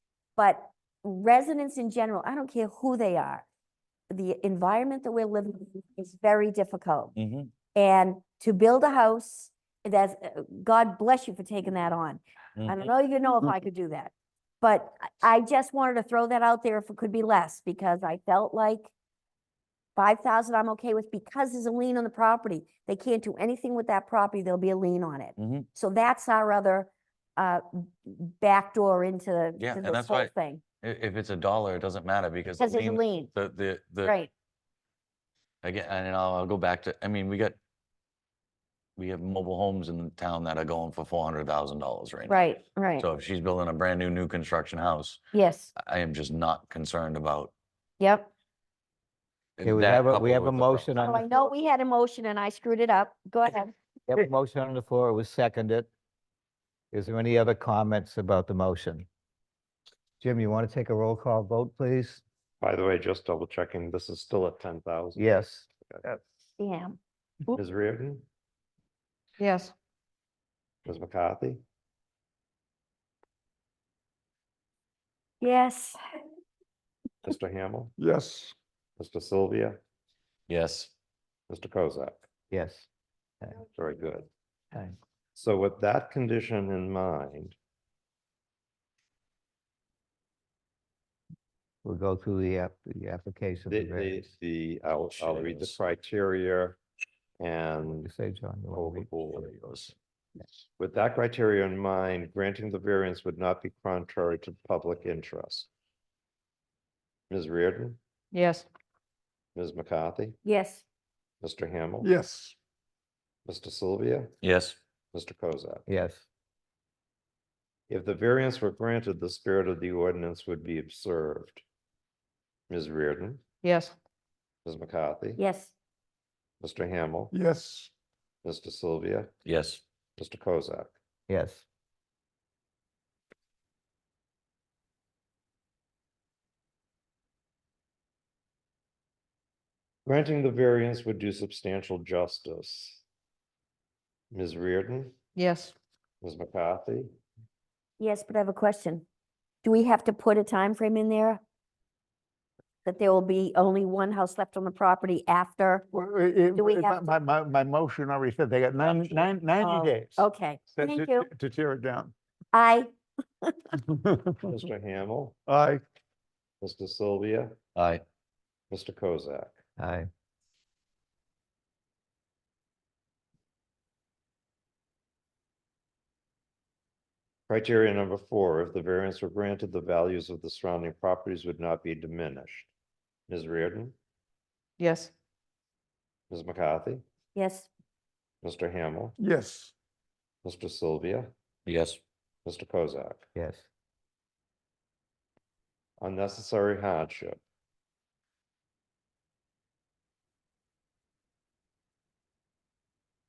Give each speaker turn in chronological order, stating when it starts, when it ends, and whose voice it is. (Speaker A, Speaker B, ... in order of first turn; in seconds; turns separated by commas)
Speaker A: 0.4-3.5, Speaker A: 4.1-7.1, Speaker B: 7.2-7.5, Speaker A: 7.7-18.9, Speaker B: 12.6-12.9, Speaker A: 20.0-30.6, Speaker B: 25.4-25.7, Speaker B: 29.6-34.1, Speaker A: 32.5-33.3, Speaker A: 34.0-34.3, Speaker B: 35.6-37.6, Speaker B: 39.0-45.2, Speaker A: 42.3-43.1, Speaker A: 45.3-45.7, Speaker B: 45.8-47.5, Speaker A: 48.0-48.3, Speaker B: 49.6-51.0, Speaker C: 49.6-51.2, Speaker A: 51.0-53.7, Speaker C: 54.1-55.9, Speaker C: 56.9-59.1, Speaker C: 60.2-62.2, Speaker D: 62.6-65.2, Speaker C: 65.2-65.7, Speaker A: 66.6-67.6, Speaker D: 67.5-68.2, Speaker E: 69.4-69.7, Speaker D: 70.9-71.6, Speaker A: 75.4-76.0, Speaker D: 77.2-77.9, Speaker F: 78.0-78.5, Speaker D: 79.0-79.8, Speaker B: 80.5-80.9, Speaker D: 81.5-82.3, Speaker C: 82.5-82.9, Speaker D: 83.7-84.3, Speaker C: 84.7-85.0, Speaker D: 85.3-87.6, Speaker C: 91.8-94.3, Speaker D: 93.7-96.8, Speaker B: 95.1-95.8, Speaker D: 97.4-98.1, Speaker C: 97.9-99.2, Speaker D: 98.7-99.5, Speaker B: 99.3-99.9, Speaker D: 100.8-105.7, Speaker D: 107.3-108.0, Speaker E: 108.3-108.7, Speaker D: 109.5-110.4, Speaker A: 110.4-110.8, Speaker D: 111.4-112.1, Speaker F: 112.0-112.6, Speaker D: 113.5-114.3, Speaker B: 114.4-114.8, Speaker D: 115.1-115.8, Speaker C: 115.9-116.2, Speaker D: 117.9-121.6, Speaker D: 122.7-123.4, Speaker E: 123.6-124.0, Speaker D: 124.7-125.4, Speaker A: 125.4-125.7, Speaker D: 126.6-127.3, Speaker F: 127.3-127.9, Speaker D: 128.4-129.3, Speaker B: 129.4-129.8, Speaker D: 130.2-130.9, Speaker C: 131.3-131.7, Speaker D: 140.1-143.0, Speaker D: 144.3-145.2, Speaker E: 145.4-145.7, Speaker D: 146.2-147.1, Speaker A: 148.0-149.1, Speaker A: 149.6-151.4, Speaker A: 152.8-155.9, Speaker F: 155.9-162.1, Speaker A: 156.6-157.1, Speaker A: 159.6-161.3, Speaker A: 162.5-162.9, Speaker F: 163.8-164.6, Speaker D: 164.5-165.4, Speaker F: 165.5-165.8, Speaker D: 166.6-167.6, Speaker B: 167.8-168.0, Speaker D: 168.7-169.6, Speaker C: 169.8-170.1, Speaker D: 177.5-182.7, Speaker D: 183.3-183.9, Speaker E: 184.8-185.1, Speaker D: 186.3-187.0, Speaker A: 187.3-187.7, Speaker D: 188.4-189.2, Speaker F: 189.2-189.7, Speaker D: 190.4-191.3, Speaker B: 191.7-192.0, Speaker D: 192.4-193.3, Speaker C: 193.3-193.7, Speaker D: 196.0-197.4